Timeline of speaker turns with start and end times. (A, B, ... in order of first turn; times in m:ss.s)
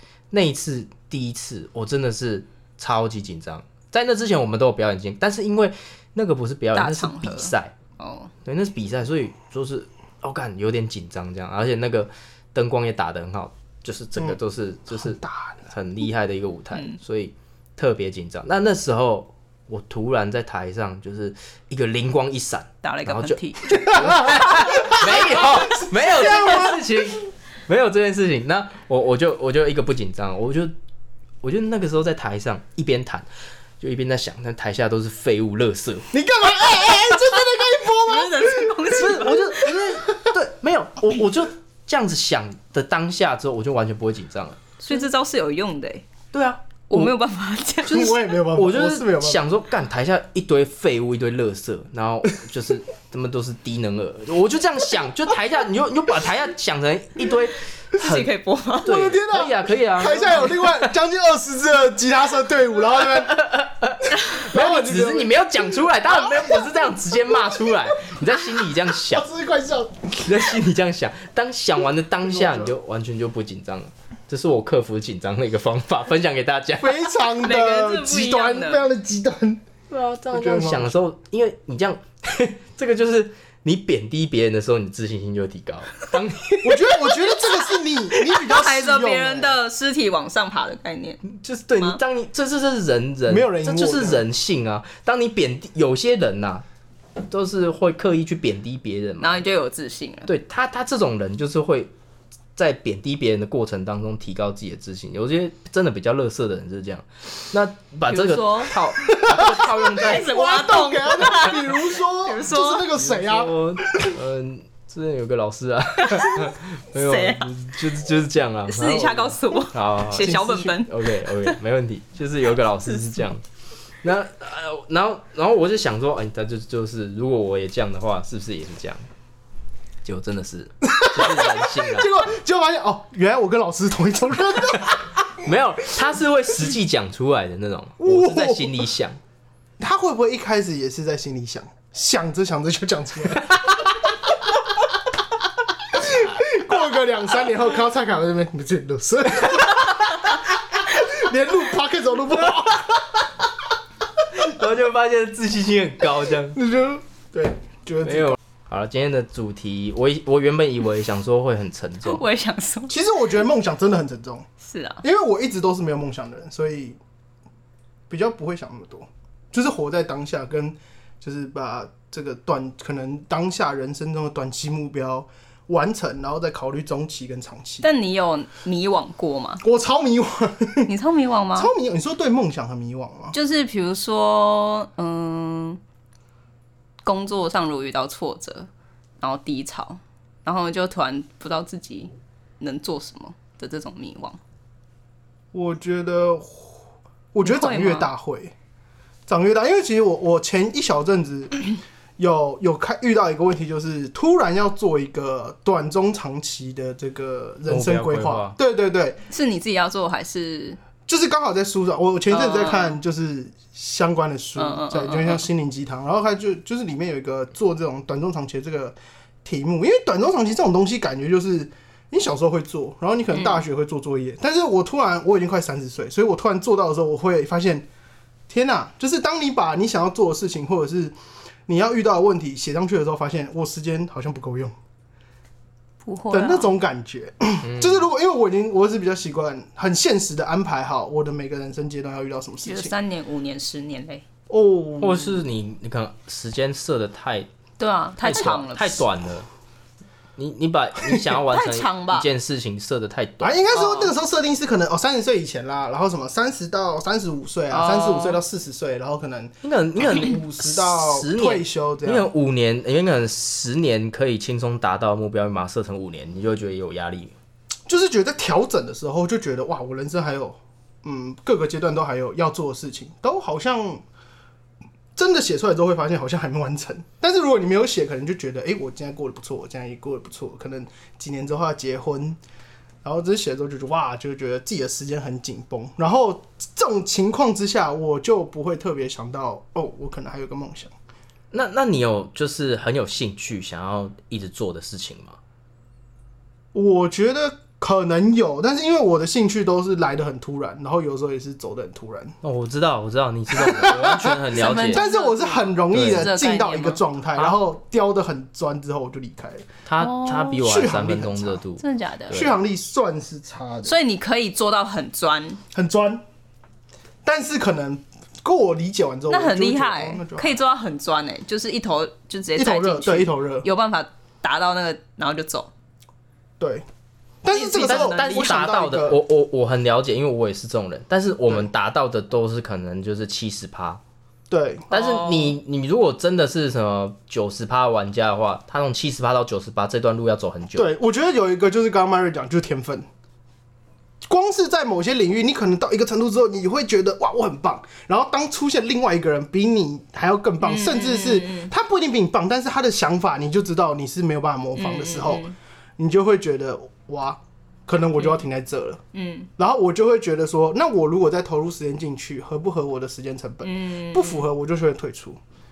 0:00.3-0:07.7 A
0:06.7-0:08.3 B
0:08.4-0:30.7 A
0:15.0-0:15.6 C
0:22.8-0:25.0 B
0:24.0-0:26.8 C
0:31.4-0:33.3 A
0:33.8-0:36.1 A
0:36.1-0:40.3 C
0:38.0-0:39.6 B
0:39.0-0:44.6 A
0:44.8-0:46.1 B
0:46.3-0:47.1 A
0:46.9-0:48.2 B
0:47.8-0:49.4 C
0:48.5-0:58.3 A
0:58.0-0:59.0 B
0:58.8-1:03.5 C
0:58.8-1:00.9 A
1:03.0-1:09.3 A
1:04.0-1:06.7 C
1:07.3-1:08.1 C
1:08.9-1:10.4 C
1:10.2-1:17.0 A
1:12.2-1:12.7 C
1:16.8-1:19.6 C
1:17.4-1:18.8 B
1:19.9-1:26.9 A
1:20.3-1:20.9 C
1:26.6-1:29.6 C
1:28.3-1:31.2 B
1:31.2-1:36.6 A
1:33.3-1:34.2 C
1:37.2-1:39.4 A
1:39.2-1:40.3 B
1:40.3-1:41.9 A
1:42.6-1:50.4 A
1:48.1-1:48.8 B
1:49.0-1:54.2 C
1:49.4-1:52.8 B
1:52.9-2:03.4 A
1:56.1-1:57.5 B
1:58.7-2:01.6 B
2:00.1-2:00.7 C
2:04.0-2:09.1 A
2:10.0-2:12.2 A
2:10.8-2:15.1 C
2:14.7-2:19.2 A
2:18.0-2:18.8 C
2:19.8-2:23.5 C
2:25.9-2:33.3 C
2:34.3-2:36.6 A
2:36.5-2:38.4 C
2:38.0-2:42.2 A
2:42.0-2:43.0 B
2:42.9-2:44.5 C
2:44.6-2:45.0 B
2:45.0-2:47.0 C
2:48.1-2:57.8 C
2:57.8-2:59.6 B
2:59.6-3:00.9 C
3:00.9-3:01.7 B
3:01.6-3:03.3 C
3:03.3-3:05.8 B
3:07.0-3:08.7 B
3:09.2-3:14.4 B
3:15.5-3:18.5 C
3:17.4-3:18.1 B
3:19.3-3:29.2 C
3:27.7-3:28.6 A
3:29.3-3:30.8 B
3:31.1-3:47.8 C
3:32.3-3:32.9 B
3:34.6-3:35.4 B
3:43.3-3:43.6 B
3:48.5-3:51.1 C
3:51.7-3:54.7 C
3:56.0-3:56.7 B
3:56.3-4:02.9 C
3:57.6-3:58.1 A
4:02.6-4:04.2 B
4:04.5-4:05.4 C
4:05.0-4:07.5 A
4:07.8-4:09.0 B
4:08.2-4:09.5 A
4:10.4-4:13.6 A
4:11.4-4:12.3 B
4:13.4-4:22.3 C
4:13.7-4:14.1 B
4:17.7-4:18.4 B
4:19.6-4:27.3 A
4:27.9-4:34.0 C
4:35.2-4:42.4 C
4:43.0-4:50.9 C
4:51.5-4:55.4 A
4:56.7-5:02.4 C
5:02.4-5:05.0 A
5:03.5-5:09.6 C
5:04.5-5:07.0 B
5:05.9-5:06.3 A
5:09.8-5:12.6 A
5:10.0-5:10.6 B
5:10.4-5:11.6 C
5:11.8-5:12.4 B
5:12.3-5:13.9 C
5:13.8-5:15.6 B
5:15.7-5:16.2 C
5:17.2-5:20.6 C
5:19.3-5:25.7 B
5:22.6-5:23.6 C
5:26.6-5:26.8 C
5:27.4-5:29.2 C
5:27.5-5:28.5 B
5:27.7-5:34.0 A
5:34.5-5:34.9 C
5:34.9-5:35.6 B
5:34.9-5:40.9 A
5:40.8-5:43.1 C
5:44.2-5:55.4 C
5:50.6-5:51.7 B
5:54.8-5:55.6 B
5:56.0-5:59.0 C
5:59.1-5:59.5 B
5:59.6-6:05.4 C
6:03.6-6:04.4 B